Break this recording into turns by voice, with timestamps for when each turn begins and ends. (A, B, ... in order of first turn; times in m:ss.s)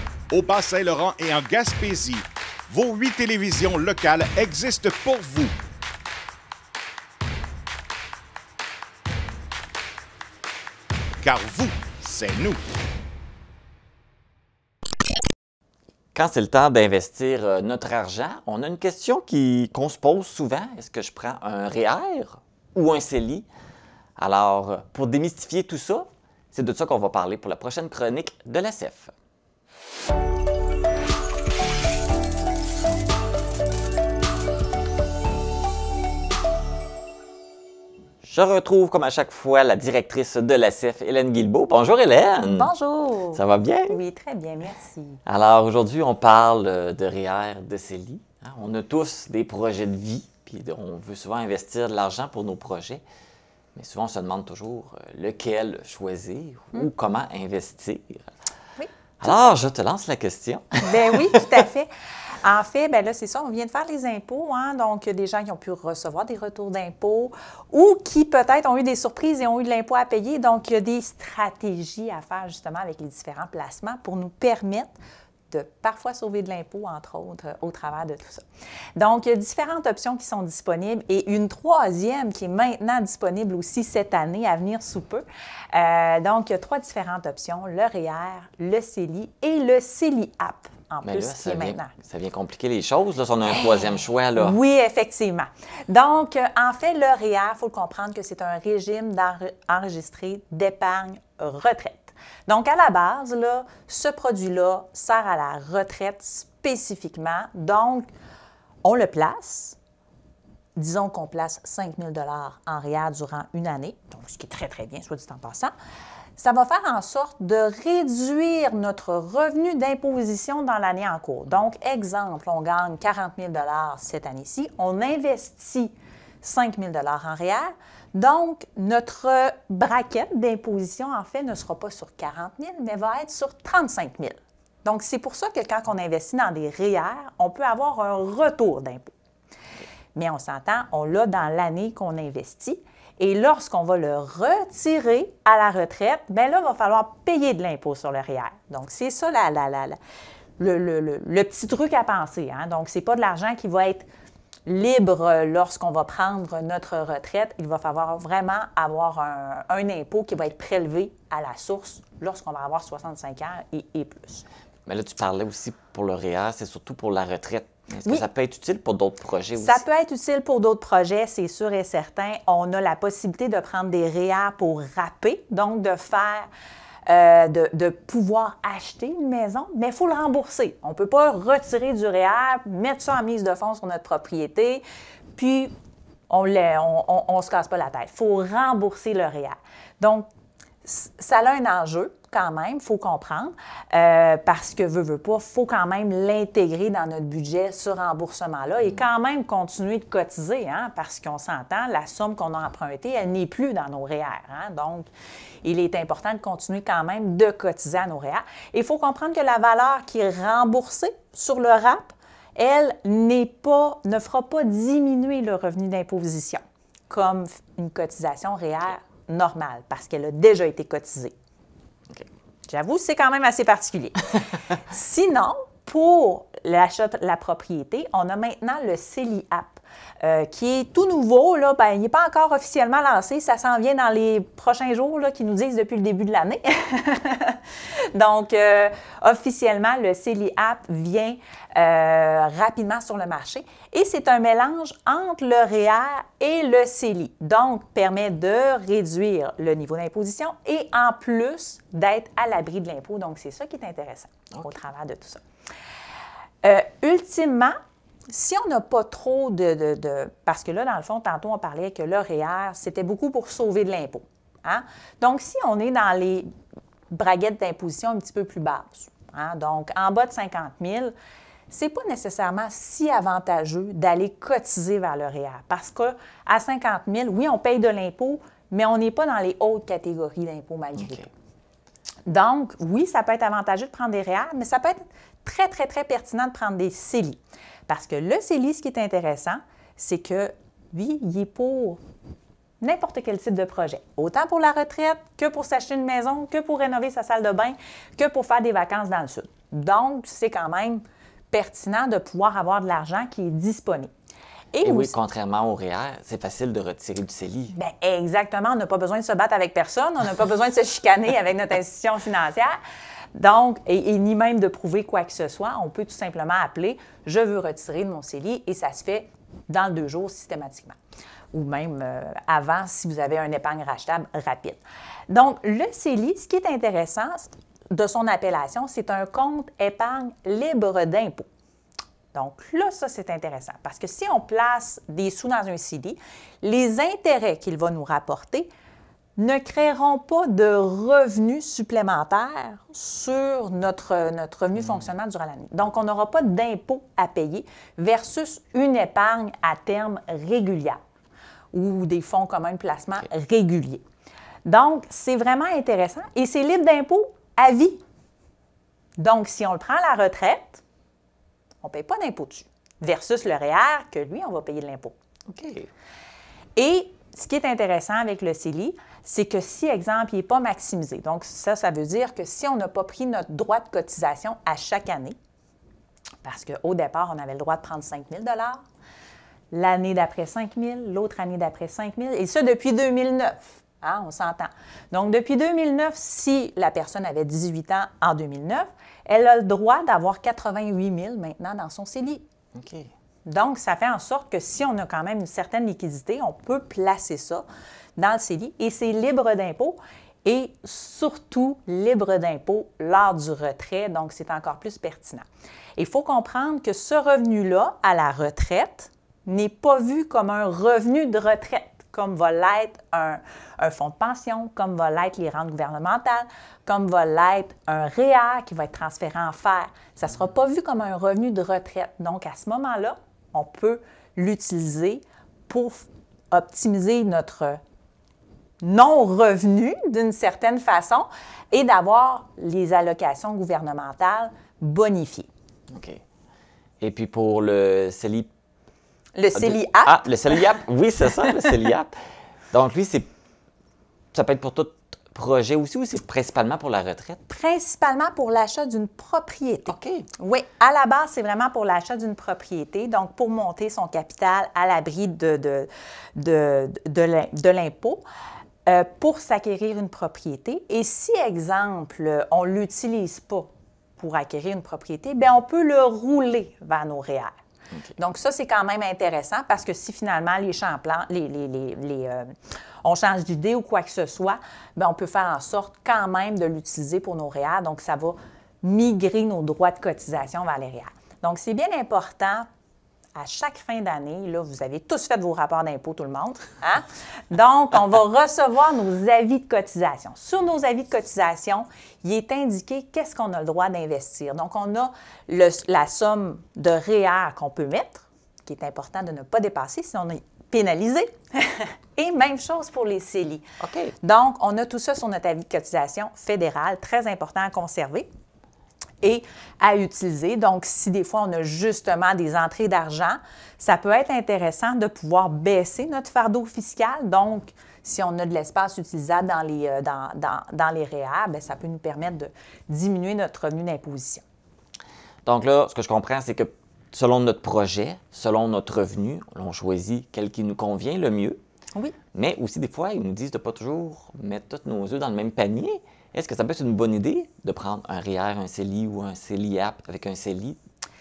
0:00.3-0:05.5 A
0:11.2-0:12.6 A
0:16.1-0:23.5 B
0:24.2-0:29.1 B
0:38.2-0:42.7 B
0:42.4-0:45.2 C
0:43.3-0:44.0 B
0:45.2-0:53.0 B
0:53.8-0:58.2 B
0:58.8-0:59.5 C
0:59.2-1:01.5 B
1:00.8-1:01.9 C
1:02.4-1:14.9 C
1:15.5-1:18.4 C
1:19.0-1:31.9 C
1:31.0-1:34.6 B
1:33.5-1:48.1 C
1:48.8-1:49.8 C
1:50.8-1:55.7 C
1:56.4-2:19.1 C
2:20.1-2:30.0 C
2:30.6-2:34.1 C
2:34.7-2:44.4 C
2:44.9-2:49.8 B
2:49.6-2:56.5 C
2:57.1-3:04.8 C
3:05.4-3:05.7 C
3:06.3-3:10.3 C
3:10.8-3:25.1 C
3:25.6-3:41.3 C
3:42.7-3:44.2 C
3:44.9-3:57.6 C
3:58.1-4:15.4 C
4:16.6-4:17.8 C
4:18.3-4:26.5 C
4:27.1-4:31.1 C
4:31.7-4:41.3 C
4:41.0-4:41.2 B
4:42.3-4:52.0 C
4:52.8-5:04.1 C
5:04.7-5:05.1 C
5:04.8-5:07.7 B
5:07.7-5:12.8 C
5:13.3-5:21.0 C
5:21.5-5:31.5 C
5:32.3-5:38.7 C
5:39.4-5:51.0 C
5:44.8-5:45.1 B
5:51.7-5:54.0 C
5:54.6-5:58.0 C
5:59.2-6:00.8 C
6:01.8-6:05.1 C
6:05.5-6:05.9 B
6:06.8-6:15.4 C
6:16.4-6:18.8 C
6:19.7-6:32.4 C
6:32.7-6:33.1 B
6:33.4-6:37.6 C
6:38.2-6:45.4 C
6:46.0-7:07.8 C
7:08.8-7:15.5 C
7:15.9-7:16.2 B
7:17.0-7:18.5 B
7:19.4-7:20.6 C
7:19.5-7:22.1 B
7:22.7-7:23.3 B
7:24.3-7:27.4 B
7:27.5-7:38.2 C
7:29.9-7:30.3 B
7:38.8-7:47.6 C
7:48.2-8:02.7 C
8:03.4-8:23.6 C
8:23.8-8:24.1 B
8:24.2-8:28.3 C
8:29.2-8:44.4 C
8:45.4-8:51.6 B
8:52.3-9:00.8 B